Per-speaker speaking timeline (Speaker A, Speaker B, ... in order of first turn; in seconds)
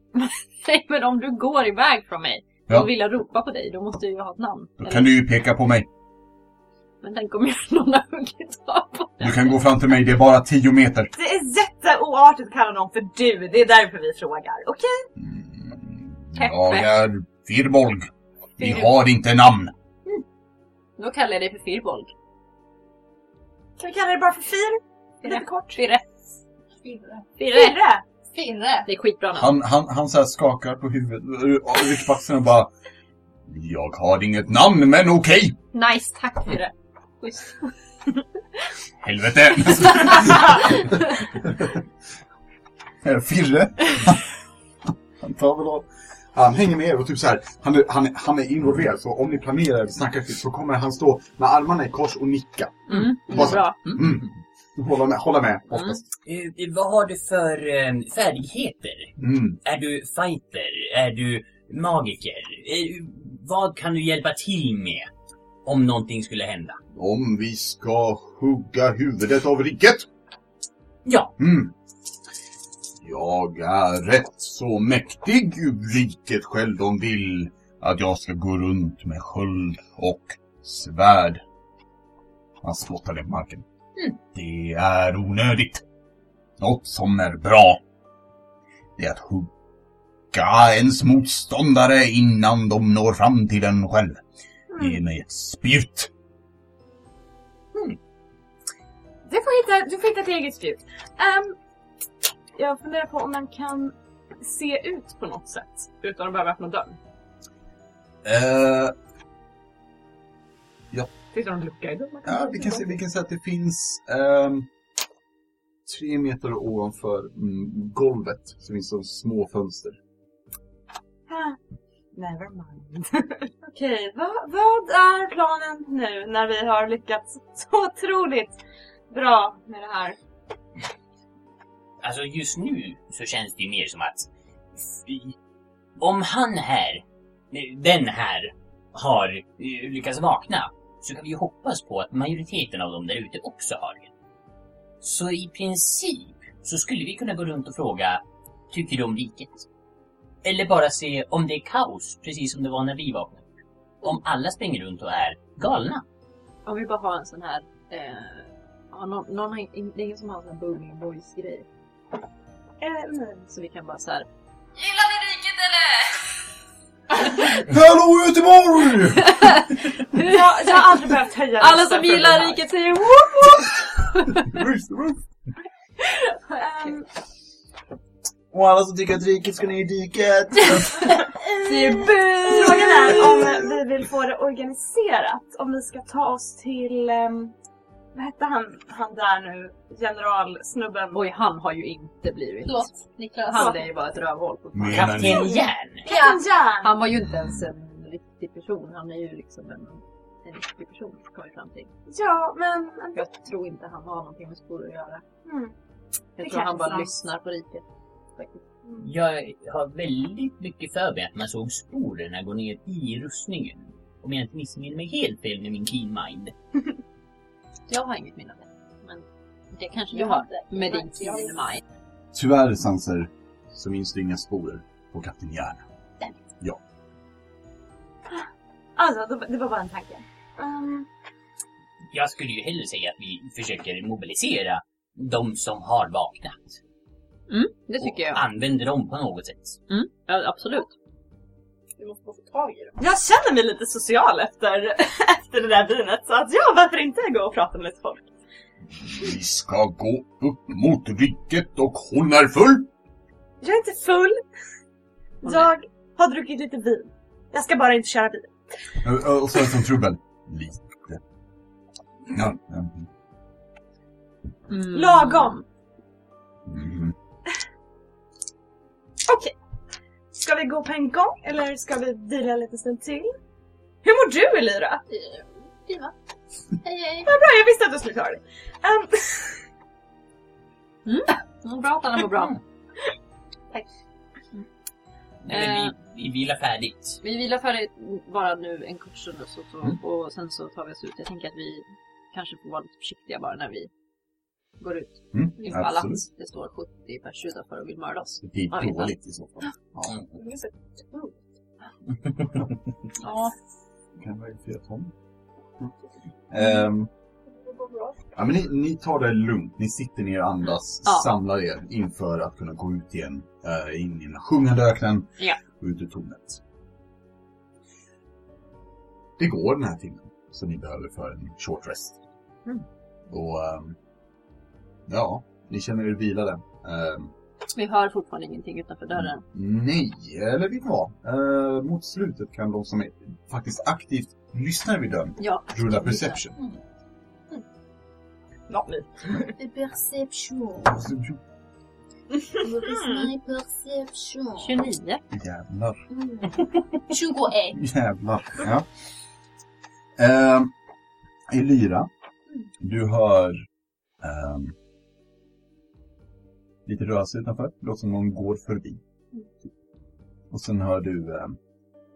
Speaker A: 0.1-5.1, 7.0-9.6, 16.4-17.0, 21.0-22.1, 25.2-26.4, 28.9-29.6, 35.7-37.7, 52.9-54.0, 156.7-161.7, 163.5-166.4, 169.3-170.8, 171.6-174.6, 176.3-176.7, 181.6-183.6, 191.1-195.4, 196.8-201.9, 203.2-205.2, 206.4-207.8, 208.4-208.6, 217.9-221.8, 237.5-238.4, 239.9-240.9, 255.4-255.7, 264.7-265.6, 275.1-276.1, 276.8-277.3, 281.1-282.6, 285.5-285.9, 287.2-293.9, 294.8-299.1, 303.2-303.5, 311.1-311.3, 327.8-329.4, 335.4-336.4, 344.6-345.2
Speaker B: 4.8-5.9, 9.2-11.1, 15.2-19.7, 29.4-32.7, 33.5-35.6, 39.0-41.8, 43.0-44.3, 45.2-56.0, 59.2-59.6, 66.9-70.1, 71.4-71.7, 73.0-81.4, 82.6-83.7, 84.2-85.8, 86.6-87.8, 89.0-89.5, 90.3-94.2, 94.8-96.1, 108.2-109.0, 112.2-114.7, 115.9-120.0, 167.6-169.7, 174.3-175.3, 178.5-181.2, 194.7-195.5, 197.1-197.7, 222.3-225.8, 249.0-252.9, 259.0-261.2, 262.3-263.1, 266.7-267.1, 295.3-296.2, 298.4-300.2, 304.2-305.1, 306.5-307.1, 308.4-316.6, 319.4-322.2, 323.3-324.0, 325.1-327.3, 329.1-336.6, 340.8-341.4, 345.3-346.0, 347.7-348.9, 350.2-350.7, 351.5-352.1, 352.8-353.6, 354.2-354.8, 356.9-359.0, 360.5-361.6
Speaker C: 11.2-15.1, 23.8-25.8, 27.4-28.1, 94.7-95.0, 99.3-101.6, 102.5-107.0, 111.3-112.9, 121.3-121.6, 122.1-128.6, 129.1-130.2, 162.8-163.5, 170.2-172.6, 176.6-177.1, 182.5-187.5, 188.2-191.2, 195.3-197.1, 202.1-203.3, 205.4-205.7, 206.4-207.1, 229.0-231.1, 243.0-248.3, 253.6-254.4, 255.4-258.5, 264.9-265.6, 269.3-269.6, 270.3-273.3, 274.0-275.0, 277.3-279.6, 338.7-339.5, 342.9-343.3
Speaker D: 26.8-28.9, 181.9-183.4, 192.7-193.8, 196.1-196.4, 220.1-221.7, 242.0-243.0, 307.6-308.2, 339.6-341.0, 342.6-344.9, 346.1-347.8
Speaker E: 53.9-54.2, 56.2-65.1, 65.7-66.8, 71.0-71.3, 132.0-135.4, 136.0-144.1, 145.0-149.7, 150.4-153.5, 154.0-156.0, 194.9-196.0, 209.0-216.5, 232.1-236.8, 238.0-239.8, 285.4-287.2